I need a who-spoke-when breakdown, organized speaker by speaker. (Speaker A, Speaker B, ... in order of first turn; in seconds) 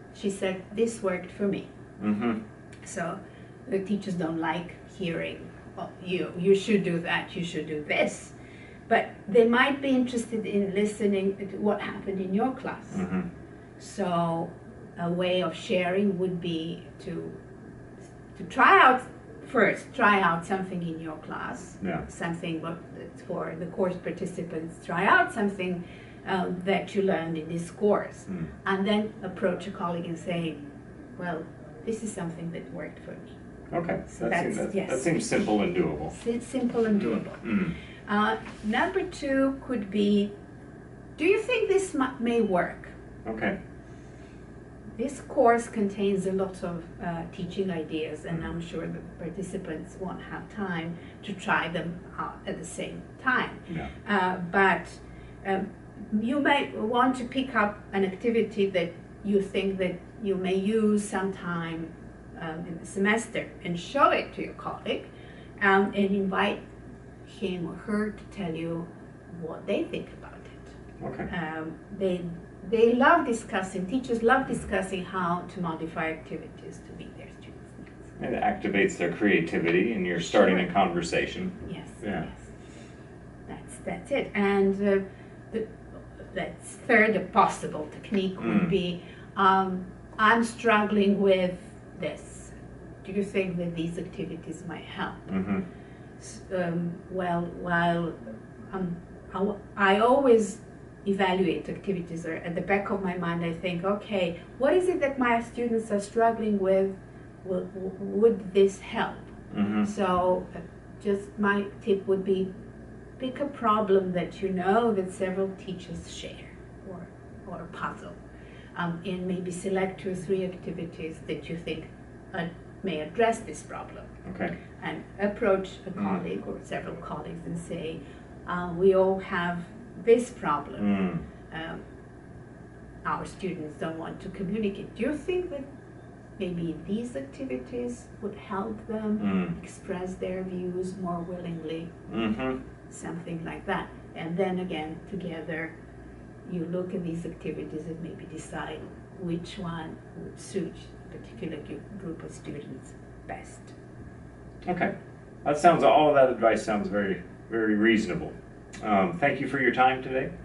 Speaker A: 0.1-1.7, 2.8-8.3, 8.9-13.0, 13.8-17.4, 18.3-30.6, 31.2-33.4, 34.1-35.1, 36.1-37.5, 38.0-40.3, 41.2-42.9, 45.0-66.6, 67.2-70.7, 71.3-78.1, 80.2-80.7, 81.6-82.5, 83.5-95.3, 96.2-112.5, 113.2-118.2, 118.7-124.1, 124.8-131.8, 133.0-135.7, 136.4-141.9, 142.9-145.7, 146.4-153.7
Speaker B: 2.0-2.4, 12.9-13.2, 33.7-36.1, 37.4-37.7, 43.2-43.5, 71.0-71.3, 78.2-82.3, 88.4-88.7, 95.3-95.6, 109.5-109.9, 124.2-124.5, 130.8-131.2, 139.2-139.5, 142.1-142.6, 154.6-154.9, 155.4-160.3